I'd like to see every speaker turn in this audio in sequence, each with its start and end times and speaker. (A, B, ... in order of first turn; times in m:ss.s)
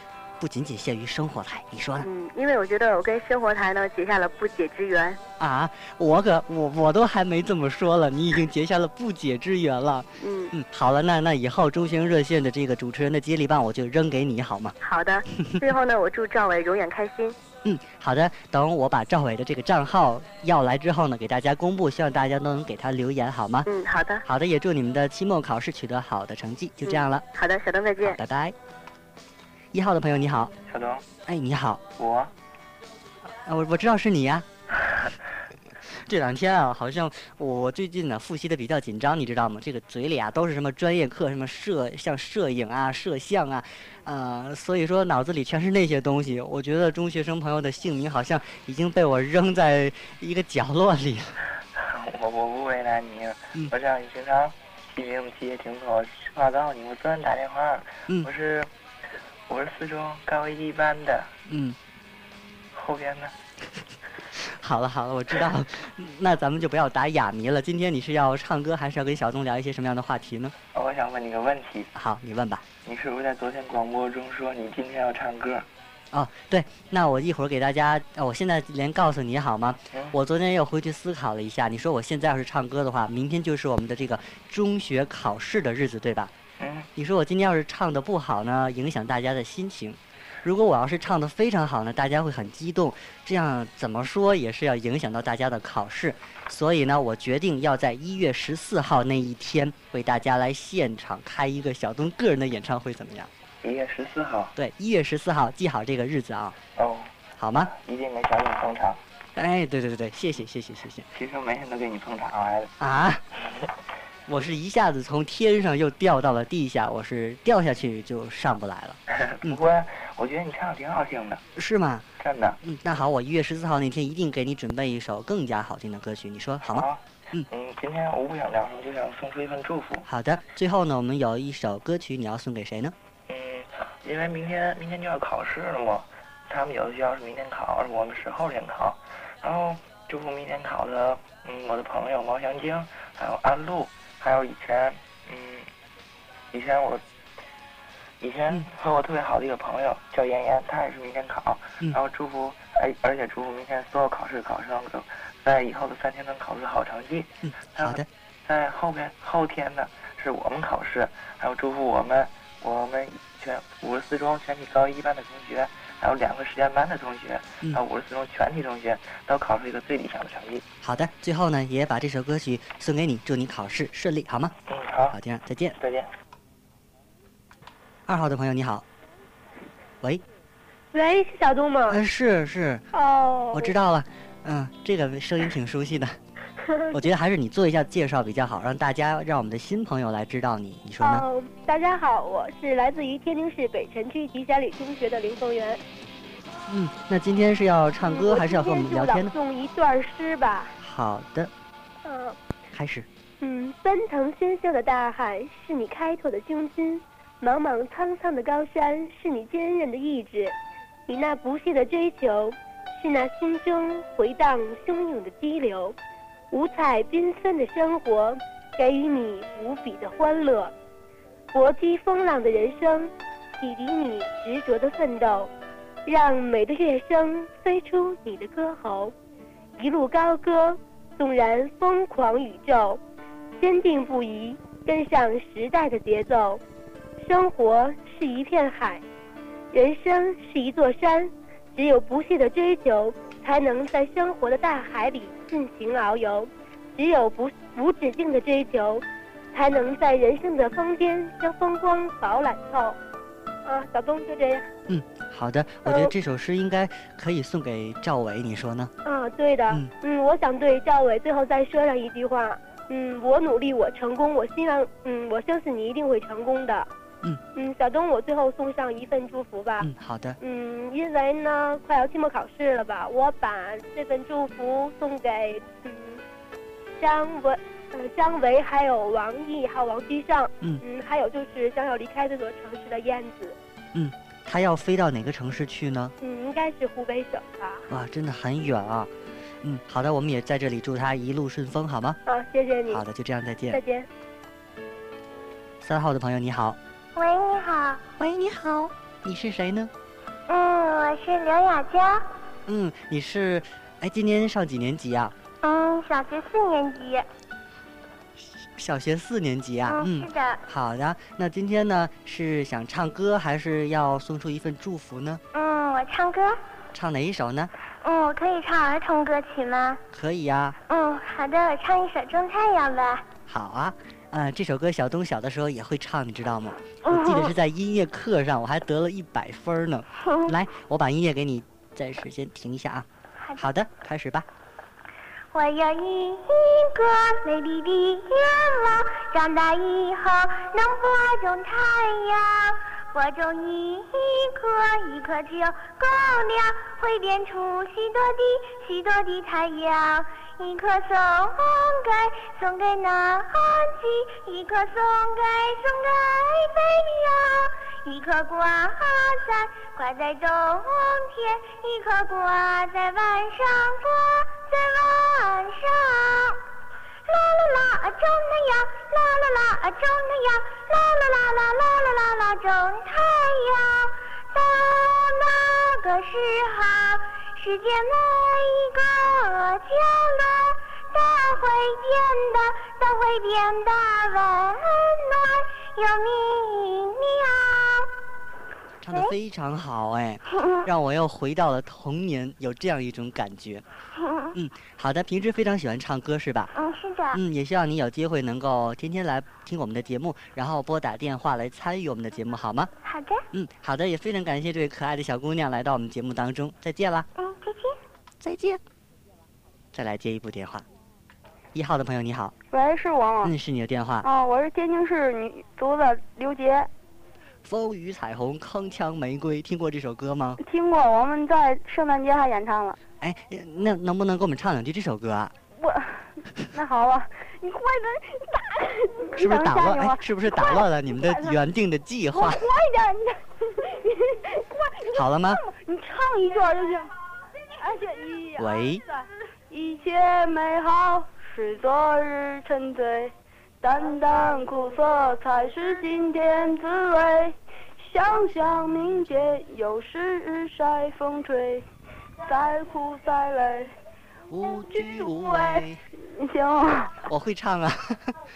0:00.4-0:02.1 A
0:02.0-0:05.2 B
0:05.4-0:14.8 A
0:10.2-0:10.5 B
0:14.8-0:17.4 B
0:17.6-0:23.7 A
0:23.7-0:24.2 B
0:24.2-0:27.2 A
0:26.8-0:28.2 B
0:28.0-0:28.6 A
0:29.7-0:30.5 A
0:30.7-0:31.0 C
0:31.3-0:31.8 A
0:32.0-0:32.3 C
0:33.3-0:34.5 A
0:34.8-0:35.1 C
0:35.8-0:51.4 A
0:51.8-0:58.7 C
0:59.5-1:01.3 C
1:01.5-1:01.8 A
1:02.7-1:03.4 C
1:04.4-1:10.5 A
1:10.7-1:11.9 C
1:12.0-1:12.6 A
1:12.8-1:15.7 C
1:16.1-1:26.3 A
1:26.6-1:26.9 C
1:27.0-1:43.3 A
1:43.6-1:44.5 C
1:44.6-1:46.6 A
1:46.8-1:49.0 C
1:47.4-1:47.7 A
1:49.4-1:51.1 A
1:51.1-1:52.7 C
1:52.8-1:53.2 A
1:54.3-1:59.6 A
1:59.1-2:01.4 C
2:01.6-2:02.1 A
2:02.2-2:02.6 C
2:02.6-2:07.5 A
2:06.7-2:10.1 C
2:10.1-2:13.0 A
2:13.3-2:25.7 C
2:26.5-2:27.0 C
2:28.2-2:50.6 C
2:37.4-2:38.1 A
2:50.8-2:54.5 A
2:54.7-2:55.2 C
2:55.1-2:55.8 A
2:55.8-2:56.1 C
2:58.1-2:58.8 A
3:00.9-3:02.0 D
3:01.9-3:02.8 A
3:02.9-3:03.7 D
3:03.5-3:06.2 A
3:06.6-3:07.0 D
3:06.9-3:11.2 A
3:11.0-3:15.8 D
3:16.7-3:19.3 A
3:18.0-3:20.8 D
3:20.8-3:21.5 A
3:22.0-3:22.4 D
3:22.7-3:23.1 A
3:23.4-3:30.6 D
3:31.1-3:36.0 D
3:36.5-3:40.7 D
3:41.5-3:45.5 D
3:46.1-3:49.1 D
3:49.8-3:53.0 D
3:53.6-3:56.6 D
3:57.2-3:59.0 D
3:59.7-4:13.0 D
4:13.6-4:14.7 D
4:14.9-4:18.9 A
4:15.8-4:16.1 D
4:19.0-4:26.9 D
4:27.6-4:36.2 D
4:29.8-4:30.4 A
4:37.0-4:43.6 D
4:43.9-4:46.1 A
4:46.2-4:47.9 D
4:47.9-4:49.1 A
4:49.6-4:52.2 A
4:52.3-4:53.0 D
4:52.9-4:53.8 A
4:53.7-4:54.1 D
4:55.8-4:56.8 A
4:57.2-4:58.0 E
4:58.2-4:59.9 A
5:00.5-5:02.2 E
5:02.7-5:05.3 A
5:05.6-5:07.2 E
5:08.4-5:15.4 A
5:09.9-5:10.6 E
5:15.5-5:16.6 E
5:16.9-5:17.7 A
5:18.0-5:20.0 E
5:20.1-5:20.8 A
5:20.9-5:23.3 E
5:23.5-5:34.5 A
5:27.0-5:27.5 E
5:30.2-5:30.6 E
5:33.4-5:33.7 E
5:35.5-6:06.6 E
6:07.3-6:28.1 E
6:29.0-6:33.8 A
6:30.5-6:30.9 E
6:34.2-6:34.6 E
6:34.5-6:36.7 A
6:36.8-6:37.4 E
6:37.3-6:42.9 A
6:43.0-6:43.4 E
6:43.5-6:47.3 A
6:47.4-6:48.0 E
6:48.4-6:48.8 A
6:49.9-6:50.9 A
6:51.7-6:52.5 A
6:52.7-6:53.5 F
6:53.4-6:54.3 A
6:54.2-6:56.9 F
6:57.6-7:00.6 A
7:00.6-7:03.0 F
7:03.2-7:05.5 A
7:05.8-7:11.6 F
7:09.4-7:12.7 A
7:12.4-7:17.1 F
7:15.1-7:15.6 A
7:17.8-7:31.8 F
7:18.6-7:19.0 A
7:32.4-7:33.9 F
7:34.5-7:36.0 A
7:35.0-7:37.3 F
7:37.3-7:38.4 A